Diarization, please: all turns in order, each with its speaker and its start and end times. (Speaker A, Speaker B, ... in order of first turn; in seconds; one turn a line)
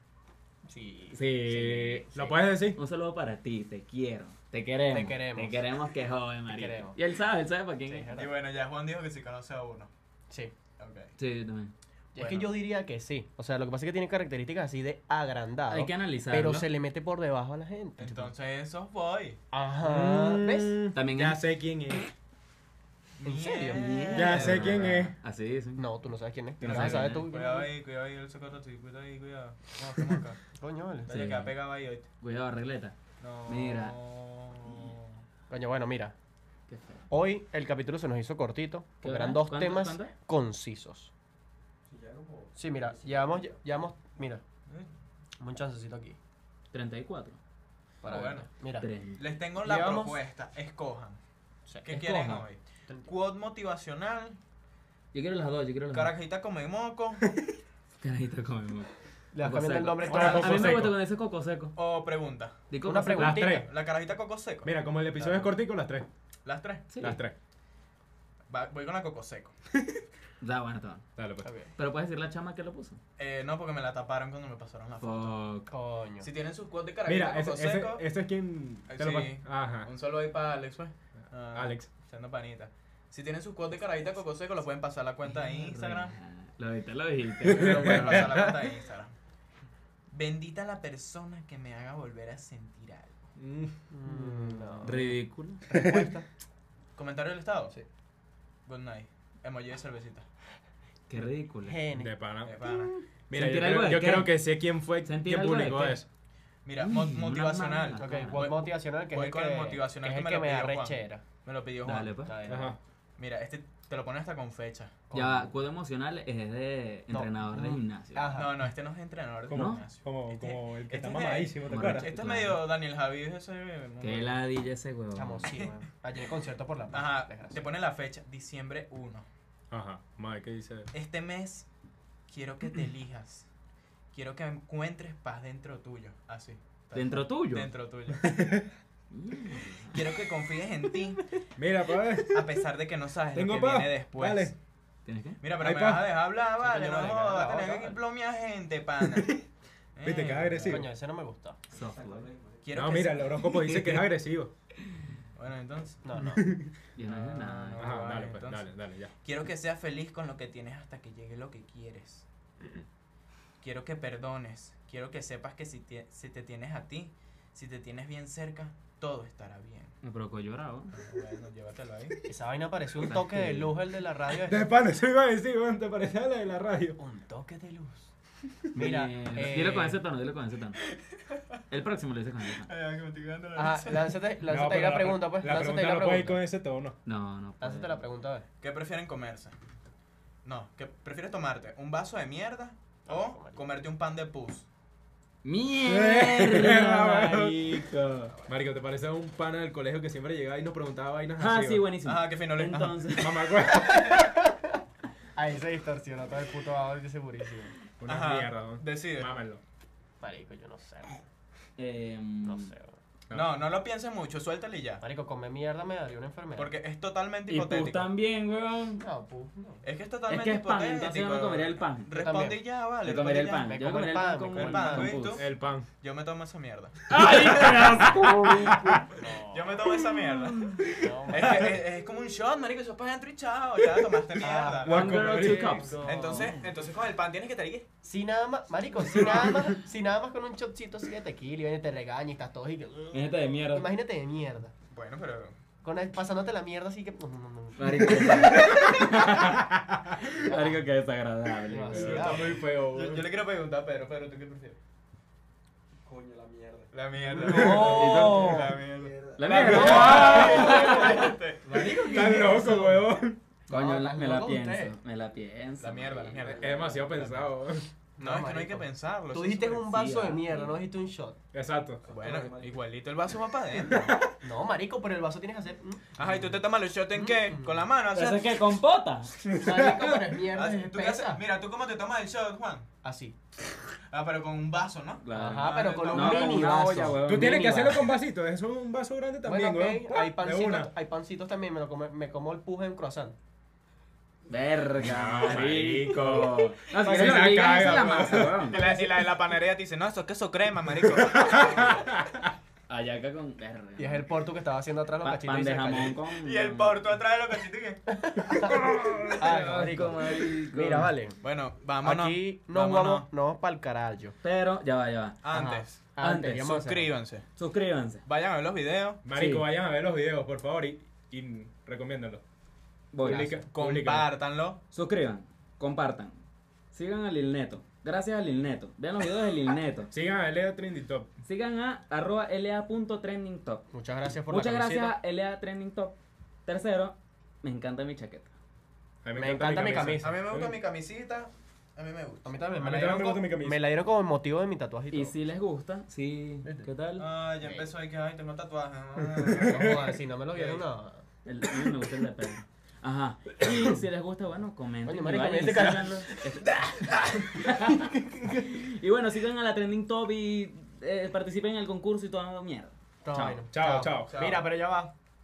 Speaker A: 0.7-2.4
Speaker B: 1.1-8.2
Speaker C: 2.1-2.8
Speaker A: 4.9-5.7
Speaker A: 6.5-7.0
Speaker A: 7.9-8.3
Speaker D: 8.1-9.9
Speaker D: 10.8-11.1
Speaker B: 11.2-11.7
Speaker A: 12.2-18.3
Speaker D: 12.2-12.5
Speaker B: 15.7-16.7
Speaker D: 18.0-19.4
Speaker A: 19.5-20.9
Speaker C: 19.8-22.1
Speaker B: 20.9-21.4
Speaker D: 23.2-24.9
Speaker A: 23.2-24.4
Speaker B: 23.7-25.9
Speaker C: 24.1-25.1
Speaker A: 25.8-27.7
Speaker B: 26.6-27.3
Speaker D: 26.6-30.4
Speaker A: 30.6-31.3
Speaker D: 31.1-32.1
Speaker B: 31.1-31.6
Speaker B: 32.2-34.0
Speaker D: 33.2-35.2
Speaker A: 35.5-36.1
Speaker B: 36.7-37.0
Speaker A: 37.1-41.1
Speaker B: 39.0-40.1
Speaker E: 41.9-44.0
Speaker A: 42.6-44.4
Speaker A: 45.4-46.2
Speaker B: 46.7-47.4
Speaker A: 48.0-48.9
Speaker D: 48.1-48.5
Speaker B: 48.8-49.2
Speaker D: 49.2-51.2
Speaker A: 49.6-50.2
Speaker D: 51.9-54.4
Speaker B: 51.9-52.5
Speaker B: 55.1-56.1
Speaker D: 55.9-57.3
Speaker B: 58.0-61.8
Speaker A: 59.3-60.9
Speaker C: 60.1-61.0
Speaker D: 61.8-62.6
Speaker B: 62.7-63.5
Speaker A: 62.8-63.7
Speaker C: 63.2-63.7
Speaker D: 63.2-65.5
Speaker C: 64.6-66.1
Speaker D: 66.5-66.9
Speaker B: 66.9-67.2
Speaker C: 67.0-67.4
Speaker D: 68.5-69.5
Speaker B: 70.4-71.1
Speaker C: 71.2-71.5
Speaker A: 71.4-71.7
Speaker B: 71.8-73.0
Speaker D: 73.2-75.4
Speaker B: 75.0-75.7
Speaker A: 75.7-76.3
Speaker D: 76.2-78.0
Speaker C: 77.1-79.9
Speaker D: 78.9-86.2
Speaker C: 81.5-81.9
Speaker B: 85.3-88.3
Speaker C: 87.5-88.5
Speaker D: 87.5-89.2
Speaker D: 90.1-93.3
Speaker C: 93.4-93.8
Speaker A: 93.9-96.3
Speaker E: 94.3-94.8
Speaker B: 94.8-95.6
Speaker C: 95.7-96.1
Speaker D: 97.0-97.7
Speaker D: 98.7-100.3
Speaker B: 101.1-101.8
Speaker A: 101.6-103.0
Speaker C: 101.9-102.6
Speaker D: 102.4-102.9
Speaker C: 103.3-106.1
Speaker B: 103.3-104.5
Speaker B: 105.0-106.0
Speaker D: 106.7-112.6
Speaker B: 106.8-108.5
Speaker A: 108.0-111.2
Speaker B: 111.8-112.3
Speaker A: 112.2-112.8
Speaker C: 112.5-112.8
Speaker D: 113.2-115.0
Speaker A: 115.1-115.5
Speaker B: 115.1-118.4
Speaker A: 117.1-118.7
Speaker D: 118.3-124.4
Speaker C: 119.5-122.1
Speaker B: 119.5-119.9
Speaker B: 121.7-122.6
Speaker B: 124.0-125.5
Speaker A: 125.2-127.6
Speaker D: 126.9-129.3
Speaker C: 129.7-130.9
Speaker D: 130.9-131.7
Speaker D: 132.3-133.5
Speaker D: 134.1-138.4
Speaker B: 136.9-137.7
Speaker C: 138.2-138.7
Speaker B: 139.1-140.0
Speaker D: 139.9-141.2
Speaker C: 141.6-142.6
Speaker D: 142.3-144.6
Speaker C: 143.3-144.5
Speaker B: 145.1-145.4
Speaker D: 145.4-150.8
Speaker C: 145.5-146.2
Speaker A: 146.6-148.0
Speaker C: 150.0-150.9
Speaker A: 150.6-151.6
Speaker B: 151.7-152.3
Speaker E: 151.8-153.0
Speaker D: 152.6-153.5
Speaker C: 152.7-154.5
Speaker B: 153.4-154.1
Speaker D: 155.3-156.1
Speaker A: 156.0-156.6
Speaker C: 156.2-156.7
Speaker B: 156.9-158.0
Speaker D: 157.0-162.3
Speaker C: 157.8-159.1
Speaker D: 163.6-170.0
Speaker B: 170.0-171.0
Speaker D: 170.9-172.2
Speaker A: 172.3-174.7
Speaker B: 173.0-173.8
Speaker C: 174.4-177.0
Speaker A: 177.0-178.1
Speaker A: 178.7-180.0
Speaker B: 178.8-180.8
Speaker B: 181.7-182.7
Speaker D: 182.6-184.2
Speaker A: 183.6-186.4
Speaker C: 184.5-187.0
Speaker B: 187.1-188.0
Speaker A: 187.6-188.5
Speaker D: 188.6-189.6
Speaker D: 190.4-194.7
Speaker A: 193.1-193.7
Speaker B: 195.4-198.3
Speaker C: 195.8-197.8
Speaker C: 198.5-201.9
Speaker B: 201.4-203.6
Speaker D: 202.1-203.1
Speaker C: 203.2-204.2
Speaker A: 203.9-204.8
Speaker A: 205.3-207.7
Speaker C: 208.0-209.6
Speaker D: 208.1-209.3
Speaker A: 210.2-211.2
Speaker B: 211.8-212.7
Speaker A: 212.5-213.0
Speaker C: 213.3-213.6
Speaker D: 213.3-215.0
Speaker A: 215.0-216.7
Speaker D: 216.6-218.1
Speaker B: 217.5-219.1
Speaker A: 219.0-219.8
Speaker D: 219.8-223.8
Speaker B: 220.3-222.1
Speaker A: 222.1-222.6
Speaker B: 223.0-225.4
Speaker A: 223.2-225.1
Speaker D: 224.5-227.7
Speaker C: 225.0-225.9
Speaker C: 227.1-229.0
Speaker B: 227.1-229.1
Speaker A: 229.2-229.9
Speaker D: 229.2-235.3
Speaker B: 229.9-231.0
Speaker A: 230.9-231.7
Speaker C: 231.3-231.6
Speaker A: 234.4-236.7
Speaker C: 234.8-235.8
Speaker B: 234.8-236.5
Speaker D: 236.0-237.9
Speaker A: 238.0-244.7
Speaker B: 243.1-243.9
Speaker D: 244.9-245.6
Speaker A: 245.8-248.9
Speaker B: 247.8-249.6
Speaker C: 248.5-250.3
Speaker B: 250.3-252.3
Speaker A: 250.3-250.8
Speaker A: 251.7-252.6
Speaker C: 251.9-253.3
Speaker D: 251.9-254.8
Speaker E: 256.1-257.0
Speaker D: 256.9-261.9
Speaker A: 257.3-258.7
Speaker C: 257.4-258.3
Speaker B: 257.5-258.7
Speaker E: 258.9-259.8
Speaker B: 259.4-261.2
Speaker A: 259.5-263.1
Speaker C: 259.6-260.8
Speaker C: 262.0-263.4
Speaker A: 263.7-265.0
Speaker B: 263.7-266.7
Speaker D: 265.8-267.6
Speaker C: 266.4-267.9
Speaker A: 268.2-271.4
Speaker D: 268.2-269.9
Speaker B: 269.9-270.8
Speaker C: 271.5-272.1
Speaker E: 272.0-272.8
Speaker D: 272.1-274.2
Speaker C: 273.9-274.3
Speaker A: 274.4-276.5
Speaker D: 276.2-278.6
Speaker A: 277.1-277.9
Speaker B: 278.1-279.4
Speaker C: 279.4-280.4
Speaker A: 279.5-281.4
Speaker D: 280.5-282.9
Speaker A: 283.0-283.4
Speaker D: 284.1-286.8
Speaker B: 285.2-287.7
Speaker A: 285.3-288.1
Speaker C: 287.2-290.9
Speaker A: 289.4-293.4
Speaker B: 294.5-298.8
Speaker C: 295.0-298.8
Speaker D: 297.1-302.0
Speaker A: 297.1-297.6
Speaker C: 301.2-302.5
Speaker B: 302.9-304.3
Speaker A: 304.0-306.2
Speaker B: 305.2-307.0
Speaker D: 306.4-308.0
Speaker A: 308.1-311.4
Speaker B: 308.8-311.1
Speaker C: 308.9-309.4
Speaker D: 311.4-313.3
Speaker A: 312.0-314.4
Speaker B: 314.4-315.4
Speaker D: 315.4-316.0
Speaker A: 315.5-317.1
Speaker B: 316.2-316.8
Speaker D: 316.6-317.5
Speaker B: 317.6-318.2
Speaker D: 318.3-319.2
Speaker C: 319.2-322.4
Speaker B: 319.3-319.7
Speaker B: 323.1-323.5
Speaker A: 323.2-323.6
Speaker C: 323.2-324.3
Speaker D: 323.7-324.8
Speaker B: 324.9-330.1
Speaker C: 330.1-331.3
Speaker B: 331.4-333.9
Speaker A: 333.9-335.2
Speaker B: 334.5-338.5
Speaker C: 339.2-340.8
Speaker A: 339.4-340.4
Speaker D: 340.2-343.5
Speaker A: 342.4-345.4
Speaker C: 342.8-343.8
Speaker B: 345.1-347.3
Speaker A: 346.6-346.9
Speaker D: 347.2-350.0
Speaker A: 347.6-347.9
Speaker C: 349.3-350.1
Speaker A: 349.5-351.2
Speaker D: 350.5-350.8
Speaker B: 351.4-363.7
Speaker A: 355.1-358.6
Speaker A: 363.2-365.1
Speaker C: 363.7-364.5
Speaker D: 364.3-364.6